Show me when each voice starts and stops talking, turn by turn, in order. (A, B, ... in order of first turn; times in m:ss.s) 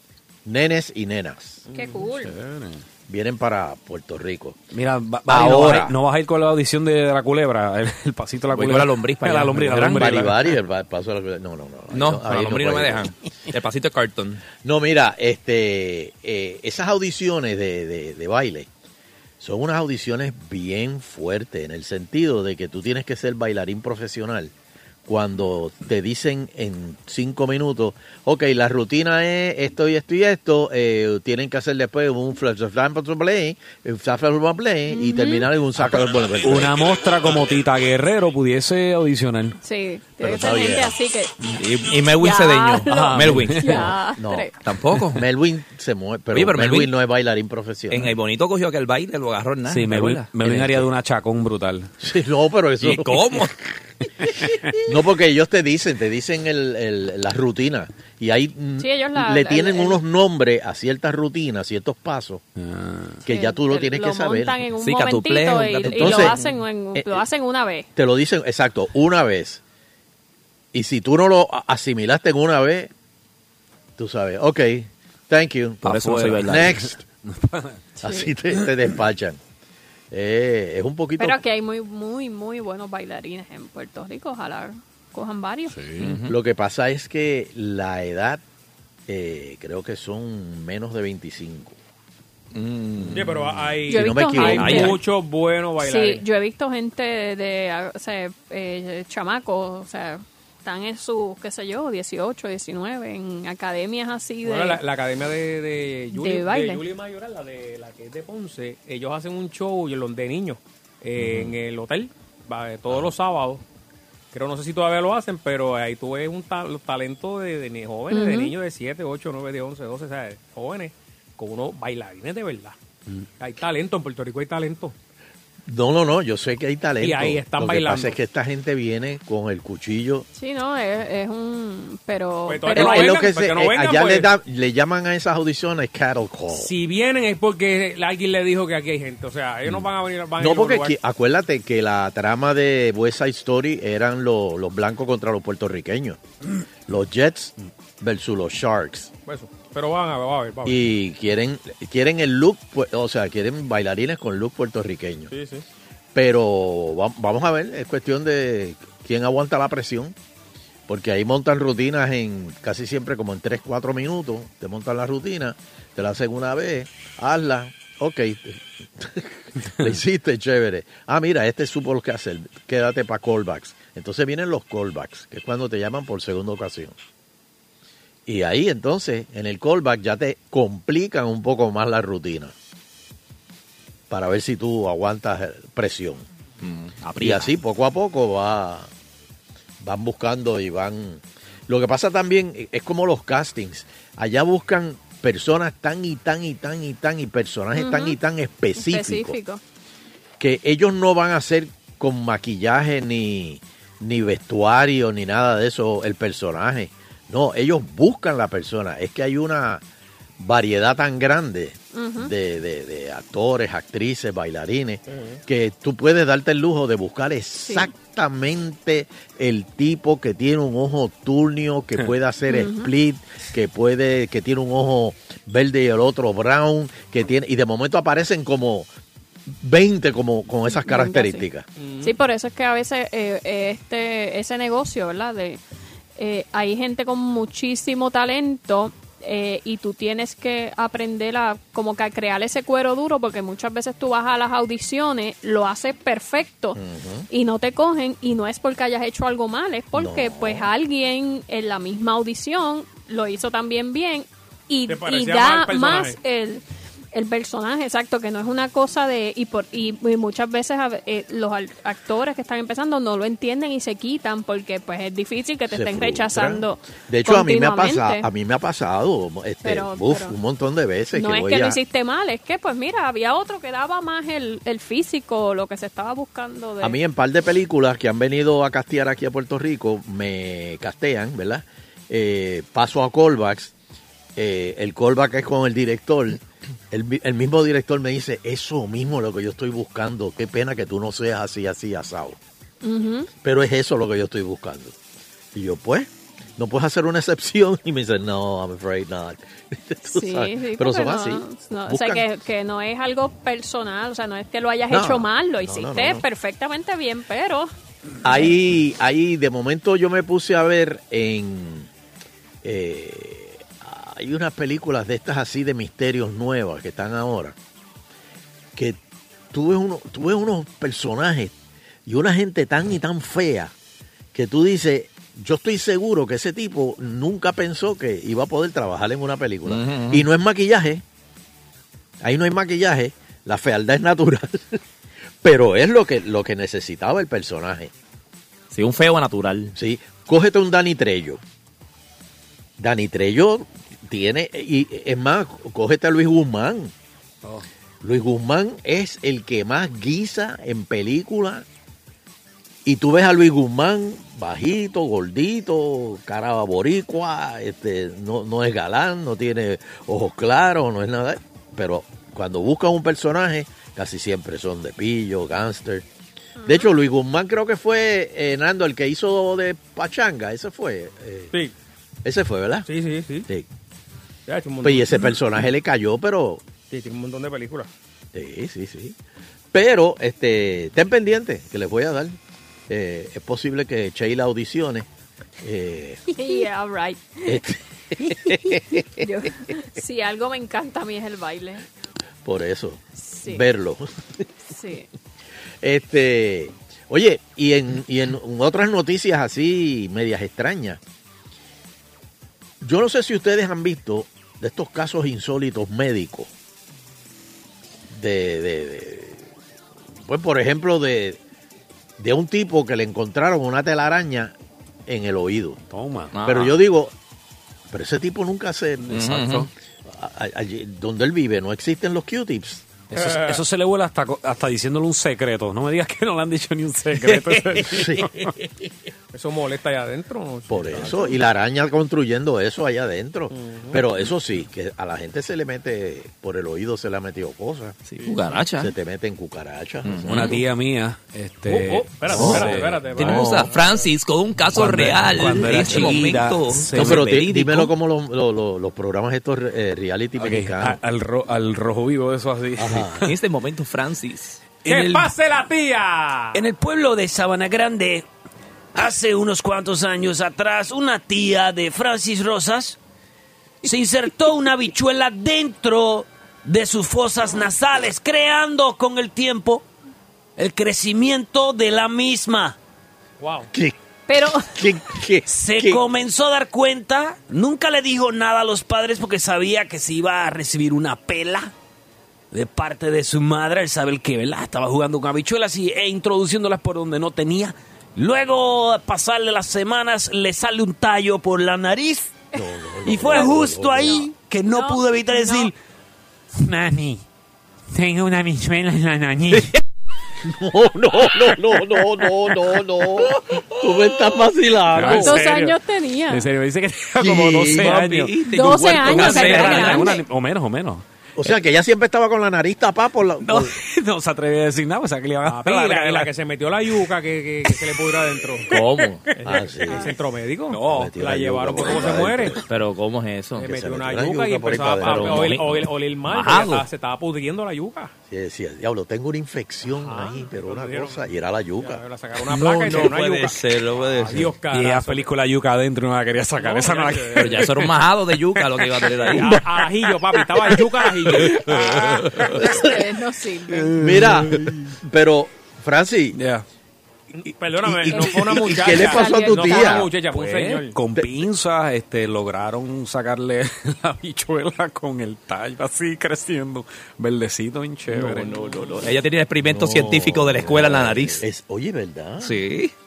0:00.4-0:01.6 A
0:01.7-0:02.0 B
0:01.7-0:02.4 C
0:02.0-0:02.8 D
0:03.1-0:04.6 A
0:04.7-0:10.4 D
0:05.3-0:06.0 A
0:08.5-0:10.2 E
0:09.9-0:13.1 A
0:11.9-0:14.4 E
0:14.6-0:18.7 A
0:19.4-0:24.5 A
0:25.0-0:36.8 A
0:34.9-0:35.5 C
0:35.8-0:39.6 D
0:39.6-0:41.4 C
0:40.2-0:40.9 A
0:41.6-0:43.9 E
0:42.2-0:44.5 C
0:42.9-0:43.9 D
0:44.2-0:44.5 A
0:44.6-0:45.2 E
0:45.1-0:48.2 A
0:46.3-0:46.9 E
0:47.9-0:50.9 E
0:49.7-0:51.9 D
0:52.0-0:53.4 A
0:52.8-0:53.5 E
0:54.8-1:02.4 A
0:58.8-1:00.0 C
1:02.6-1:03.2 D
1:03.2-1:04.6 A
1:03.3-1:07.9 C
1:04.8-1:06.4 E
1:05.9-1:06.4 A
1:07.0-1:07.2 A
1:08.0-1:09.6 A
1:10.7-1:12.9 A
1:14.0-1:17.0 A
1:15.8-1:16.7 E
1:15.9-1:17.8 D
1:18.0-1:18.3 C
1:18.0-1:19.4 A
1:20.1-1:21.4 A
1:21.2-1:25.8 C
1:25.7-1:26.2 D
1:26.0-1:26.3 E
1:26.3-1:28.4 A
1:29.1-1:31.8 A
1:32.5-1:33.3 E
1:33.1-1:36.2 B
1:33.9-1:34.9 A
1:33.9-1:35.0 C
1:34.4-1:35.0 E
1:35.8-1:44.8 C
1:44.4-1:53.6 B
1:46.1-1:46.8 C
1:54.3-2:02.8 B
1:58.1-1:58.5 C
2:03.4-2:05.0 B
2:05.6-2:10.3 A
2:07.0-2:08.2 B
2:10.3-2:13.2 C
2:12.5-2:14.3 B
2:12.7-2:16.7 A
2:16.5-2:21.0 B
2:20.4-2:26.2 A
2:26.9-2:29.1 A
2:29.3-2:30.8 B
2:30.6-2:35.3 A
2:35.3-2:35.6 B
2:36.2-2:40.2 A
2:40.9-2:57.0 A
2:58.3-3:02.5 A
3:04.1-3:06.2 A
3:06.6-3:07.5 E
3:07.2-3:08.9 A
3:09.8-3:19.4 A
3:17.8-3:18.2 C
3:18.8-3:19.6 C
3:20.4-3:29.8 A
3:30.4-3:48.9 A
3:31.9-3:32.3 C
3:35.1-3:35.4 B
3:37.6-3:37.9 C
3:42.5-3:42.9 C
3:49.5-3:51.7 A
3:50.7-3:51.4 C
3:51.8-3:52.2 B
3:52.0-3:55.6 C
3:56.2-4:28.3 C
4:06.8-4:07.3 A
4:09.9-4:10.7 A
4:14.9-4:16.2 B
4:25.7-4:31.8 A
4:29.6-4:30.4 C
4:31.1-4:37.0 C
4:36.8-4:43.7 A
4:44.4-4:52.4 A
4:52.8-4:53.3 C
4:53.4-4:55.0 A
4:55.5-5:02.3 A
5:00.1-5:07.7 C
5:04.9-5:06.2 A
5:08.2-5:11.9 A
5:12.6-5:17.6 A
5:19.5-5:21.6 A
5:22.1-5:23.7 A
5:24.3-5:31.0 A
5:29.7-5:30.2 E
5:32.2-5:34.8 A
5:35.4-5:37.9 A
5:38.7-5:39.7 E
5:39.8-5:41.4 A
5:42.8-5:46.9 A
5:48.0-5:51.7 A
5:52.8-6:06.1 A
6:06.6-6:06.9 C
6:06.6-6:11.6 A
6:12.2-6:12.9 A
6:12.9-6:13.5 B
6:14.5-6:15.2 B
6:14.8-6:16.6 A
6:16.9-6:17.9 B
6:18.3-6:19.2 A
6:19.7-6:22.4 A
6:22.9-6:25.1 A
6:25.6-6:26.2 A
6:26.3-6:27.6 C
6:27.4-6:29.2 A
6:28.5-6:31.9 C
6:32.4-6:34.4 A
6:33.2-6:33.7 C
6:34.7-6:35.1 C
6:35.8-6:41.0 A
6:42.8-6:46.5 A
6:48.1-6:49.5 A
6:50.2-6:51.4 A
6:52.2-6:54.5 A
6:55.1-6:55.8 A
6:55.9-6:56.4 D
6:56.3-6:56.8 E
6:56.4-6:57.1 A
6:57.9-7:02.9 A
6:59.1-6:59.7 E
6:59.2-6:59.7 D
7:03.1-7:08.5 D
7:03.2-7:03.6 B
7:07.7-7:08.6 A
7:09.3-7:11.3 B
7:10.7-7:18.0 A
7:13.5-7:14.0 B
7:18.1-7:18.9 E
7:18.8-7:20.6 A
7:20.0-7:20.6 E
7:20.3-7:23.5 D
7:21.7-7:24.1 B
7:22.3-7:27.9 E
7:22.3-7:23.7 A
7:24.7-7:27.3 D
7:25.6-7:26.4 A
7:26.9-7:31.0 A
7:30.4-7:33.2 D
7:32.8-7:33.3 A
7:33.2-7:35.2 E
7:34.9-7:36.7 B
7:36.6-7:38.3 D
7:39.0-7:43.0 D
7:43.8-7:49.8 D
7:50.6-7:52.8 D
7:53.4-7:53.7 B
7:54.3-7:54.8 C
7:54.5-7:56.0 A
7:55.5-8:01.7 D
8:02.5-8:12.4 D
8:12.5-8:14.3 A
8:13.0-8:15.7 D
8:13.2-8:13.5 C
8:14.7-8:15.7 C
8:16.6-8:17.2 D
8:17.9-8:19.8 D
8:20.4-8:25.4 A
8:24.9-8:25.8 D
8:25.0-8:26.5 C
8:26.3-8:31.0 D
8:27.2-8:28.0 A
8:27.6-8:30.1 E
8:28.5-8:30.2 C
8:31.4-8:33.8 A
8:33.4-8:36.3 D
8:35.4-8:38.8 B
8:38.7-8:39.1 E
8:39.0-8:40.1 A
8:39.4-8:42.6 B
8:40.7-8:41.2 D
8:40.8-8:42.6 A
8:42.7-8:43.7 E
8:43.6-8:48.1 B
8:43.6-8:45.6 A
8:45.0-8:46.9 E
8:48.3-8:52.0 A
8:49.9-8:51.2 B
8:51.8-8:55.3 B
8:52.5-8:54.5 E
8:54.7-8:57.8 D
8:56.6-8:57.6 B
8:57.3-8:59.6 E
8:59.3-9:02.0 B
9:01.4-9:02.5 E
9:02.6-9:04.0 C
9:04.0-9:06.4 A
9:04.0-9:04.5 D
9:06.4-9:06.6 D
9:07.4-9:11.0 B
9:07.9-9:10.1 A
9:08.1-9:10.1 C
9:10.3-9:18.5 D
9:18.1-9:21.4 E
9:19.6-9:22.6 A
9:22.4-9:22.9 E